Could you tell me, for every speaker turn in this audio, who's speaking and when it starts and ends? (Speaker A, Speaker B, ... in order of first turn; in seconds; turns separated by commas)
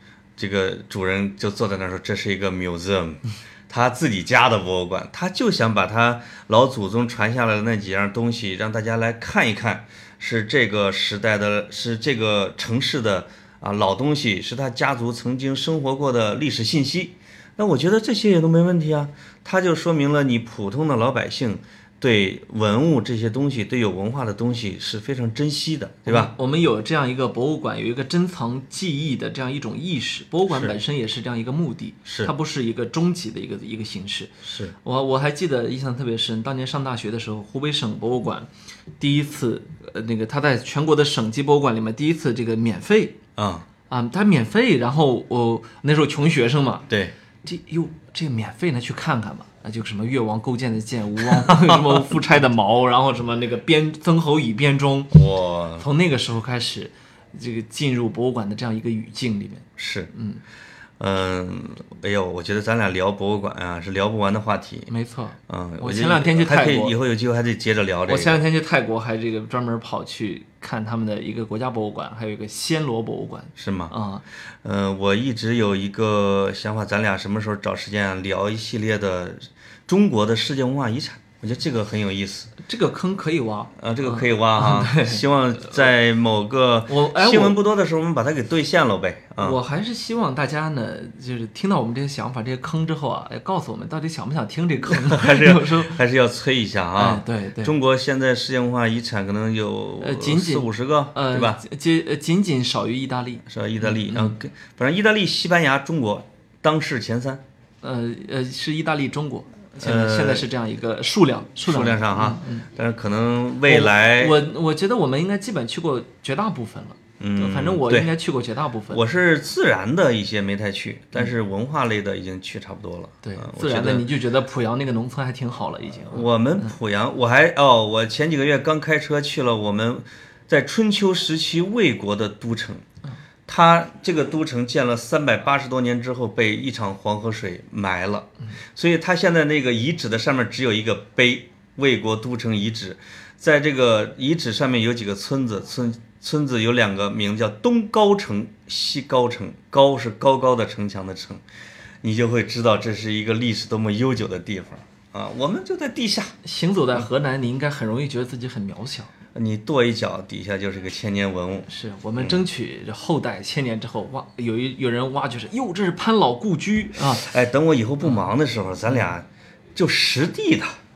Speaker A: 0.4-26.3, Speaker B: 26.1-43.2, Speaker A: 30.5-30.8, Speaker A: 34.4-34.7, Speaker A: 43.4-43.7, Speaker B: 43.9-46.9, Speaker B: 47.4-55.2, Speaker A: 51.2-52.1, Speaker A: 55.1-55.8, Speaker B: 55.8-60.4, Speaker A: 59.8-60.1, Speaker A: 61.0-64.9, Speaker B: 64.9-66.9, Speaker A: 65.5-68.4, Speaker B: 68.1-74.2, Speaker A: 73.6-73.9, Speaker A: 74.6-82.5, Speaker B: 82.6-85.7, Speaker A: 83.8-89.6, Speaker B: 86.9-87.6, Speaker B: 89.4-96.0, Speaker A: 94.9-101.6, Speaker B: 97.0-97.7, Speaker B: 100.0-104.3, Speaker A: 103.4-107.4, Speaker B: 107.8-112.7, Speaker A: 109.8-110.5, Speaker A: 111.6-114.4, Speaker B: 113.7-119.0, Speaker A: 117.2-118.1, Speaker A: 118.9-124.1, Speaker B: 123.2-126.7, Speaker A: 126.1-132.8, Speaker A: 133.5-151.4, Speaker A: 152.0-156.3, Speaker B: 156.4-159.1, Speaker A: 159.3-161.7, Speaker B: 161.7-167.3, Speaker A: 162.2-162.4, Speaker A: 167.1-170.8